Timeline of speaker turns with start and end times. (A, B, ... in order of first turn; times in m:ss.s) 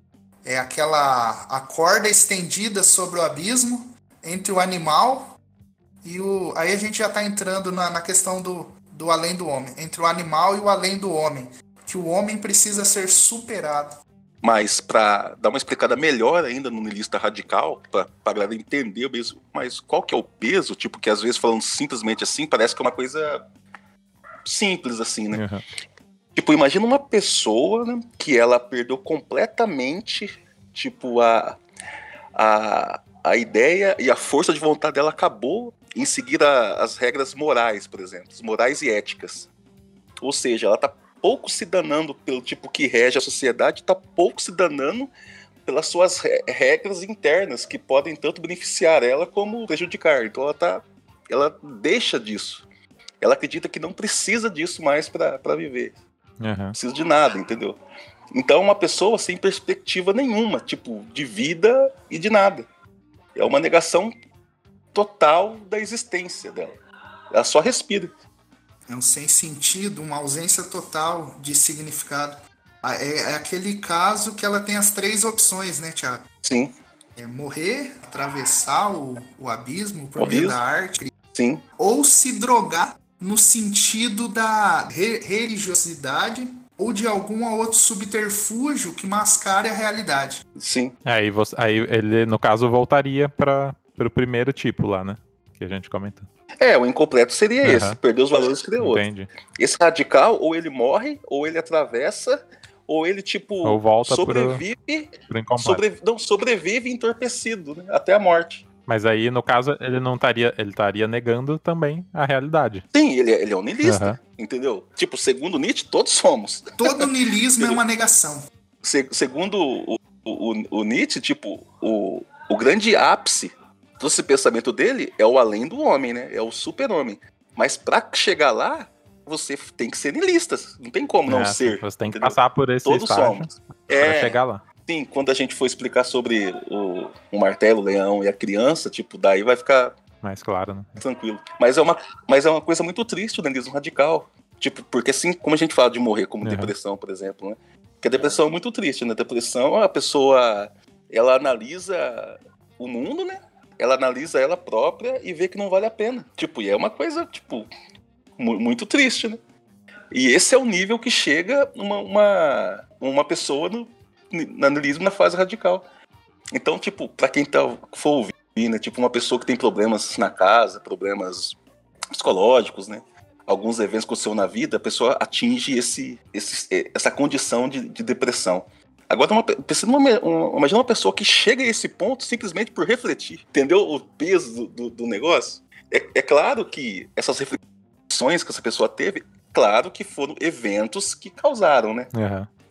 0:00.4-0:05.4 A
0:06.0-0:14.0 A
0:14.4-0:23.4 B
0:24.4-0:25.4 B
0:25.3-0:25.6 C
0:26.4-0:31.6 B
0:32.4-0:39.5 B
0:40.2-0:45.1 B
0:45.6-0:52.6 B
0:53.2-0:56.0 B
0:56.4-0:56.8 C
0:56.8-0:57.8 B
0:58.3-1:02.7 B
1:03.4-1:04.1 B
1:04.9-1:06.8 B
1:07.3-1:08.1 B
1:08.9-1:16.2 A
1:16.4-1:16.8 B
1:17.2-1:21.1 A
1:20.2-1:20.6 B
1:21.3-1:21.6 B
1:21.8-1:30.4 A
1:30.6-1:31.0 B
1:31.0-1:36.3 C
1:36.6-1:39.0 B
1:37.6-1:38.0 C
1:38.8-1:39.3 C
1:39.6-1:48.6 B
1:43.6-1:44.6 C
1:45.3-1:45.8 C
1:48.9-1:52.8 C
1:52.9-1:57.8 B
1:53.8-1:54.2 C
1:56.8-1:58.5 A
1:58.8-2:20.0 B
2:11.3-2:14.6 C
2:20.2-2:21.0 C
2:21.0-2:37.7 B
2:26.4-2:26.7 C
2:38.4-2:39.4 B
2:40.1-2:45.8 B
2:46.5-2:51.6 B
2:52.1-3:12.1 B
3:12.1-3:12.5 C